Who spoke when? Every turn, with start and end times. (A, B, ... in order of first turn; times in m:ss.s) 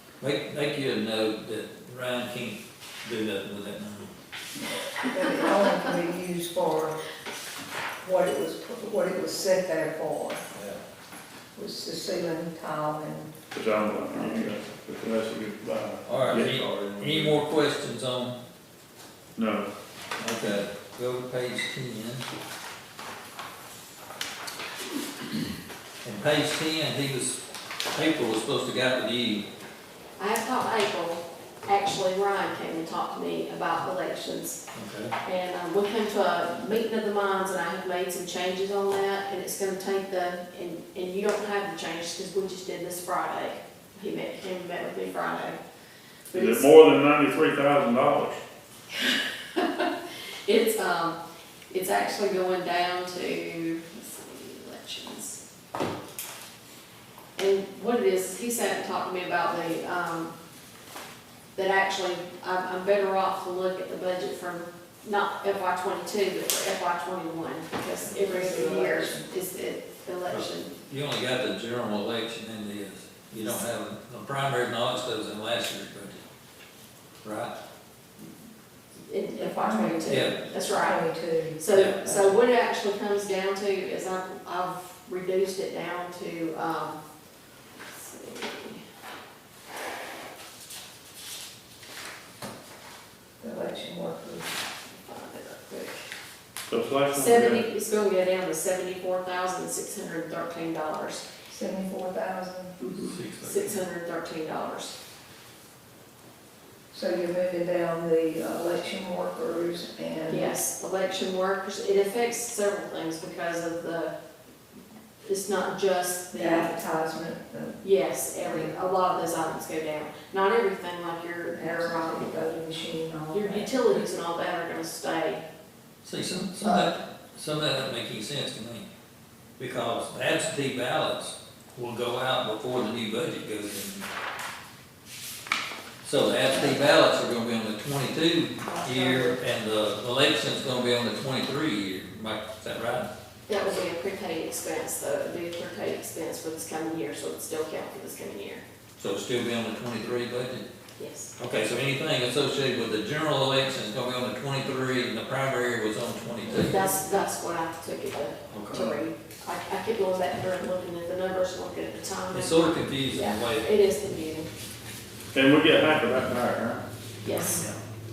0:00.2-0:04.1 A
0:05.0-0:07.0 B
0:08.0-0:10.4 B
0:10.5-0:10.8 A
0:11.6-0:13.3 B
0:13.5-0:17.4 C
0:16.0-0:18.4 A
0:19.4-0:19.7 C
0:20.2-0:22.2 A
0:26.0-0:27.4 A
0:27.9-0:29.4 A
0:30.2-0:34.6 D
0:34.7-0:35.1 A
0:35.2-0:45.6 D
0:46.3-0:46.7 D
0:46.3-0:48.4 C
0:48.9-0:49.9 D
0:50.4-0:51.2 D
0:51.7-0:55.4 D
0:57.4-1:00.3 D
1:01.5-1:10.7 D
1:08.0-1:09.3 B
1:10.3-1:16.2 A
1:17.2-1:17.5 A
1:19.1-1:21.0 D
1:19.3-1:22.4 B
1:20.1-1:20.4 A
1:21.6-1:27.0 D
1:21.7-1:22.0 A
1:27.9-1:28.8 D
1:33.4-1:34.5 B
1:34.9-1:36.0 D
1:36.7-1:37.6 C
1:37.1-1:41.2 D
1:41.5-1:42.9 B
1:42.9-1:45.0 D
1:43.0-1:43.8 A
1:46.9-1:50.5 B
1:50.3-1:54.1 D
1:55.2-1:56.7 D
1:56.3-1:57.8 B
1:57.8-2:02.3 D
1:58.4-1:58.7 B
2:01.5-2:04.0 B
2:03.3-2:05.4 D
2:06.0-2:08.9 A
2:06.6-2:06.9 D
2:09.6-2:14.1 A
2:16.0-2:23.1 A
2:18.8-2:19.3 B
2:18.9-2:19.2 D
2:23.5-2:28.6 D
2:29.0-2:30.6 A
2:31.0-2:31.3 D
2:31.4-2:36.9 A
2:36.5-2:44.5 D
2:38.5-2:39.0 A
2:42.3-2:43.7 A
2:45.3-2:46.8 C
2:47.2-2:47.6 D
2:47.4-2:47.8 A